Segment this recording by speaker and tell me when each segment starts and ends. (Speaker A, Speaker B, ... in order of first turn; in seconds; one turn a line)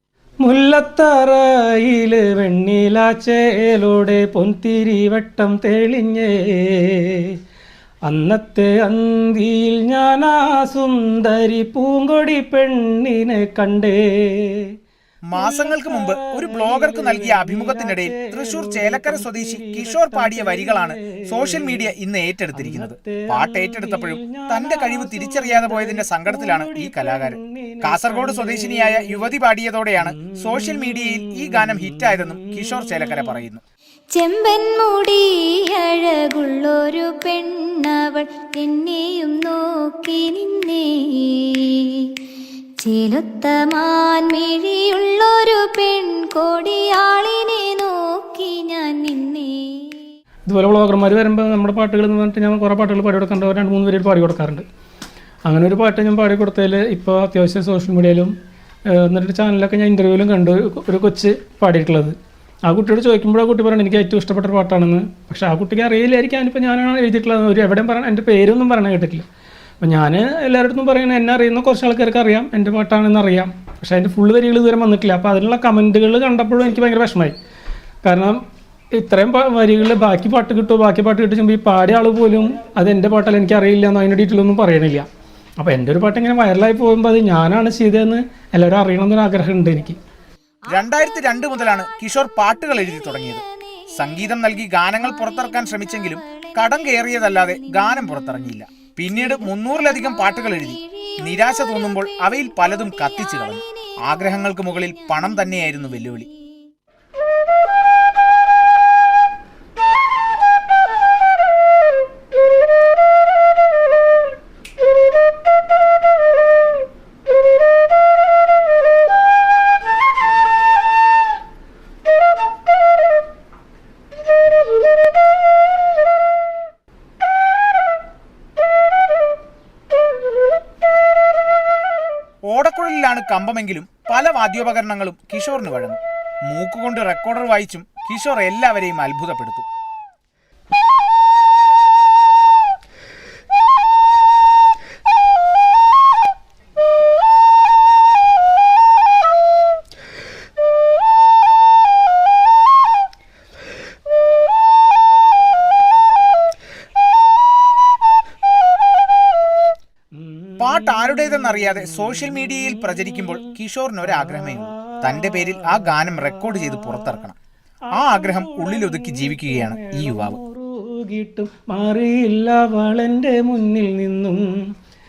Speaker A: 0.4-7.3
Speaker A: 8.1-14.7
Speaker B: 15.3-33.6
Speaker A: 15.3-21.9
Speaker A: 22.5-29.3
Speaker A: 30.0-33.4
Speaker C: 34.1-42.1
Speaker C: 42.8-50.0
Speaker A: 50.5-54.6
Speaker A: 55.5-58.3
Speaker A: 58.9-69.3
Speaker A: 69.8-77.3
Speaker A: 78.0-78.4
Speaker A: 78.9-85.1
Speaker A: 85.6-90.0
Speaker B: 90.7-106.3
Speaker C: 90.8-106.3
Speaker B: 132.5-139.7
Speaker A: 160.1-163.5
Speaker B: 160.6-167.4
Speaker A: 164.1-167.3
Speaker A: 167.9-174.6
Speaker B: 167.9-170.4